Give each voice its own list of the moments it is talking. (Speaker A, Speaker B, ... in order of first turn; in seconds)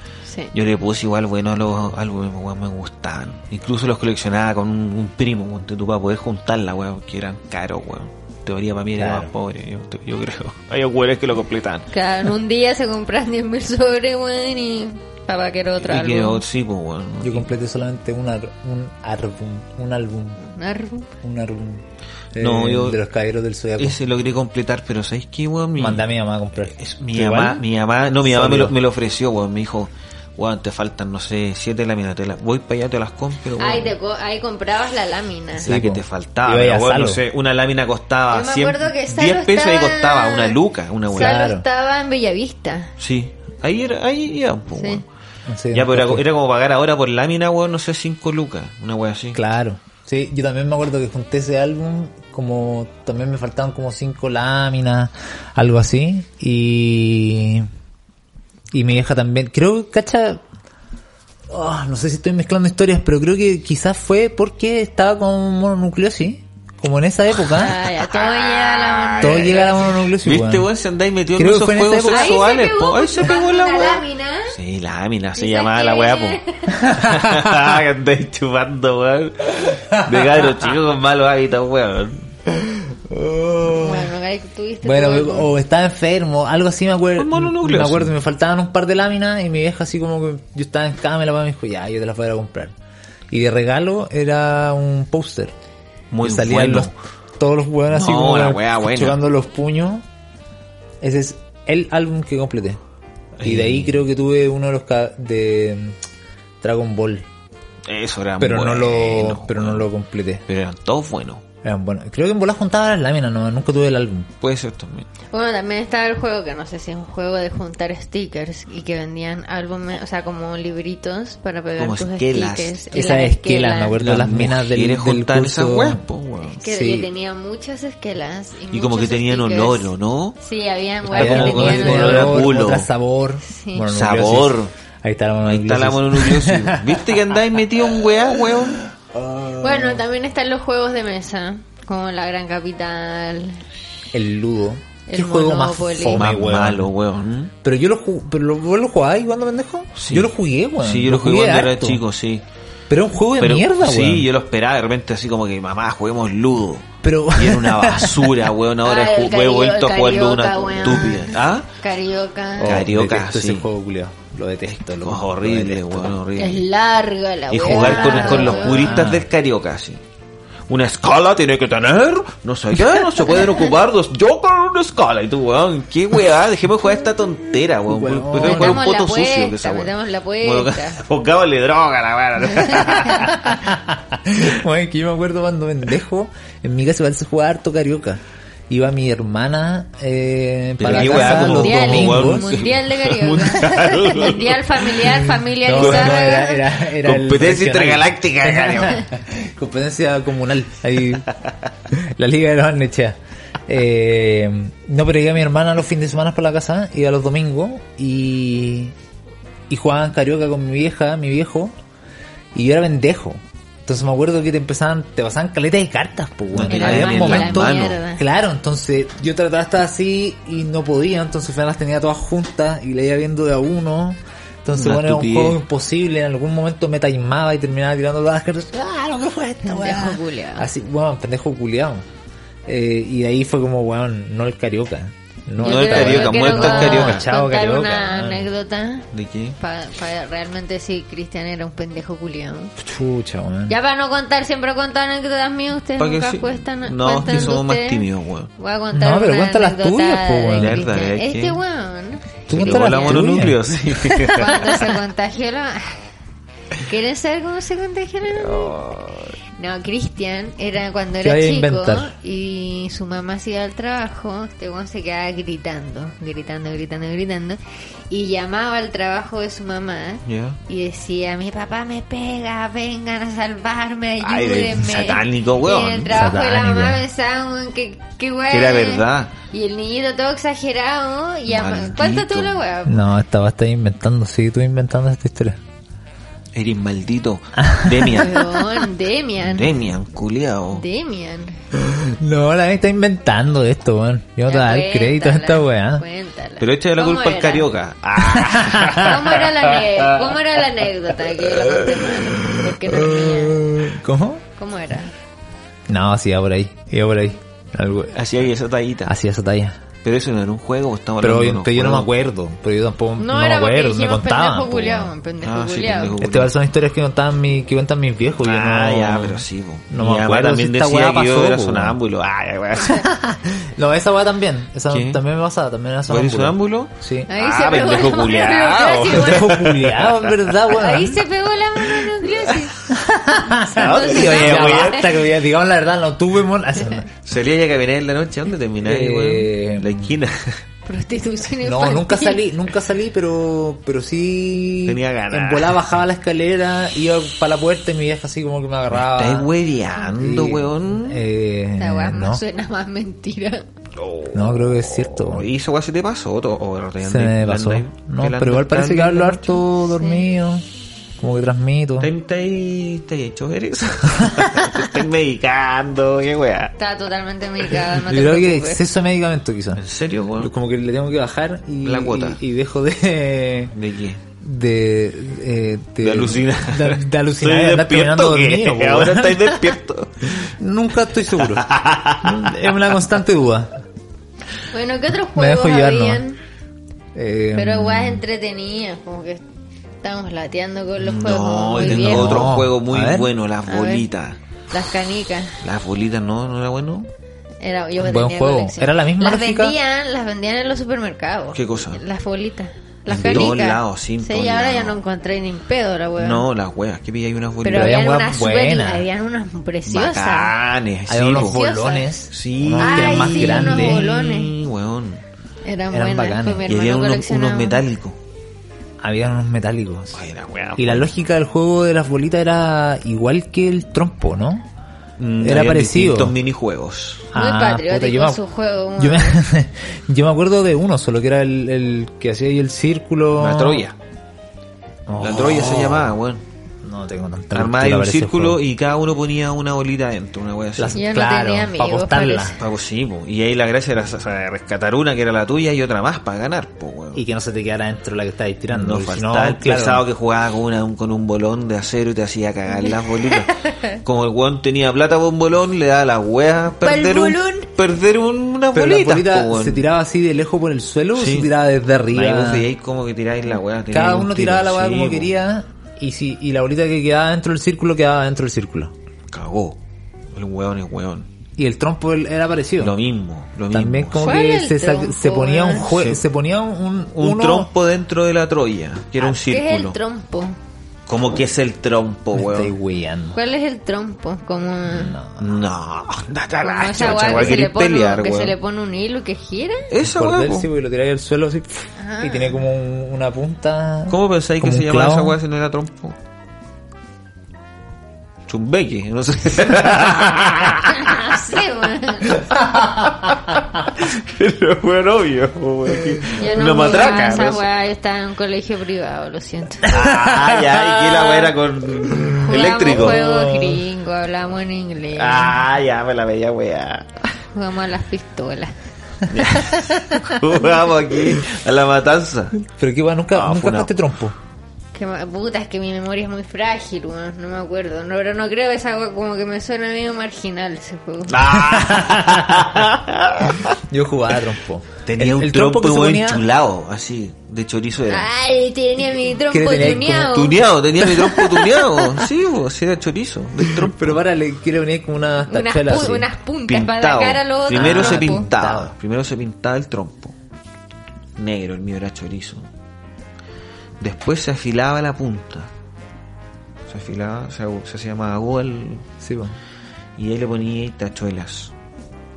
Speaker A: 0.2-0.5, 11.9-16.4, 20.4-21.1, 33.6-35.7, 38.3-40.6, 41.1-42.9, 44.8-45.0, 67.5-69.9, 72.1-74.6, 75.3-76.9, 83.7-85.5, 115.3-124.0, 126.5-132.5, 133.4-133.9, 139.6-143.6, 145.1-146.3, 158.8-162.8, 166.4-169.1, 178.4-181.0, 182.4-183.4, 190.9-196.6, 216.7-218.2, 229.6-230.7, 235.6-242.8, 243.7-248.1, 248.6-253.3, 254.3-256.0, 256.8-258.8, 259.6-267.6, 268.1-283.1, 288.0-289.7, 290.7-291.6, 294.5-297.7, 298.9-303.7, 304.6-305.1, 313.2-316.2, 327.3-329.6, 330.7-332.8, 333.6-335.1, 340.9-342.4, 351.8-353.7, 359.8-360.2, 366.8-368.8, 384.7-386.4, 387.5-389.4, 390.0-392.5, 393.7-394.1, 394.7-395.6, 397.6-406.5, 407.6-410.5, 411.3-412.1, 412.8-414.5, 415.6-417.8, 427.3-429.4, 440.9-442.6, 452.8-453.9, 456.8-457.7, 474.2-475.9, 479.2-480.6, 483.3-485.2, 486.6-489.9, 492.0-492.6, 500.9-502.4, 506.4-510.0, 511.1-511.5, 512.4-515.6, 517.5-518.8, 524.9-531.4, 538.1-540.6, 545.5-548.5
Speaker B: 0.5-11.9, 15.8-17.5, 22.4-23.0, 23.8-26.1, 26.7-33.9, 35.6-41.4, 43.0-45.1, 45.7-49.4, 67.5-82.2, 87.2-88.2, 96.1-96.9, 97.9-99.2, 103.4-104.0, 107.9-109.9, 110.5-111.4, 114.4-115.1, 121.8-122.8, 124.0-126.6, 128.7-130.4, 131.1-132.9, 133.9-134.7, 135.5-138.8, 146.2-147.5, 150.0-152.4, 153.4-161.7, 162.6-163.7, 165.0-166.6, 167.5-170.0, 170.7-183.4, 190.8-196.3, 197.0-199.1, 216.5-218.0, 224.7-225.6, 235.6-237.3, 239.1-239.6, 246.0-248.5, 250.6-251.6, 252.5-254.7, 258.3-259.4, 270.3-270.6, 274.2-276.2, 278.5-279.3, 281.5-282.6, 286.5-288.8, 289.4-290.9, 296.6-300.4, 308.1-309.1, 310.0-312.1, 315.4-316.5, 318.4-323.1, 324.9-325.2, 326.1-330.5, 333.8-335.2, 337.2-340.6, 344.9-345.8, 348.9-351.2, 354.0-359.6, 362.0-366.8, 369.8-370.5, 371.8-372.4, 373.8-374.2, 376.0-380.5, 381.4-382.7, 391.0-394.4, 395.6-397.1, 401.5-402.0, 403.1-405.0, 406.2-408.0, 409.9-411.6, 412.3-415.2, 416.7-418.2, 420.1-421.1, 425.2-427.3, 433.4-434.0, 435.2-436.4, 437.5-441.0, 442.6-447.2, 448.7-459.8, 461.1-461.5, 462.1-465.3, 469.3-469.8, 470.4-471.3, 472.8-474.4, 475.8-476.2, 477.2-480.0, 481.1-482.7, 485.4-488.6, 489.9-490.7, 494.1-496.2, 498.5-501.4, 502.2-507.7, 509.9-513.2, 515.1-517.1, 519.3-522.6, 523.3-523.9, 531.3-533.8, 535.0-538.3, 540.1-544.2, 546.7-550.3, 551.4-552.7, 554.0-555.7, 556.9-559.1, 560.2-561.7
Speaker C: 9.0-9.3, 17.2-20.4, 21.2-24.0, 25.8-27.6, 28.2-28.8, 35.6-37.2, 41.1-41.6, 45.5-46.2, 49.3-57.7, 58.7-60.4, 61.5-67.8, 69.2-70.7, 71.4-72.4, 76.7-77.7, 79.7-80.5, 82.5-84.1, 84.8-92.7, 93.3-95.5, 96.2-100.0, 101.0-102.8, 103.4-106.0, 106.6-107.3, 108.4-110.5, 111.6-114.3, 122.9-126.0, 126.6-127.1, 131.1-137.0, 139.0-140.0, 144.1-146.9, 147.6-152.0, 152.9-154.3, 157.0-158.4, 162.6-166.2, 167.6-169.3, 177.8-178.8, 183.1-192.6, 195.6-201.3, 201.9-208.9, 209.7-211.8, 212.5-232.1, 232.7-238.5, 242.8-243.8, 248.9-250.8, 252.5-254.6, 261.2-262.1, 276.1-277.1, 282.9-285.6, 287.6-288.3, 291.8-296.0, 298.2-299.1, 302.9-304.4, 305.9-308.2, 309.1-309.8, 311.2-315.1, 316.2-322.0, 322.8-327.3, 329.1-331.2, 332.9-337.1, 338.8-340.0, 341.6-349.5, 350.1-352.4, 354.3-355.5, 357.0-360.6, 361.2-362.1, 364.1-364.9, 368.0-369.8, 370.4-373.8, 374.4-379.8, 380.4-381.7, 382.2-383.8, 385.4-386.2, 387.1-388.2, 391.8-393.3, 398.0-399.8, 403.1-403.5, 407.7-409.1, 411.1-414.1, 415.9-416.7, 419.0-420.2, 420.8-424.7, 425.4-426.4, 427.3-428.4, 429.0-433.9, 435.1-436.1, 436.8-438.6, 440.8-442.6, 447.1-450.1, 458.7-462.7, 463.9-468.9, 471.6-473.0, 473.7-477.7, 482.4-483.4, 484.9-485.6, 490.0-495.4, 509.9-510.8, 512.1-513.8, 522.6-524.4, 531.5-532.9, 533.8-536.4, 539.5-540.4, 543.8-546.3, 547.7-548.9, 559.2-559.6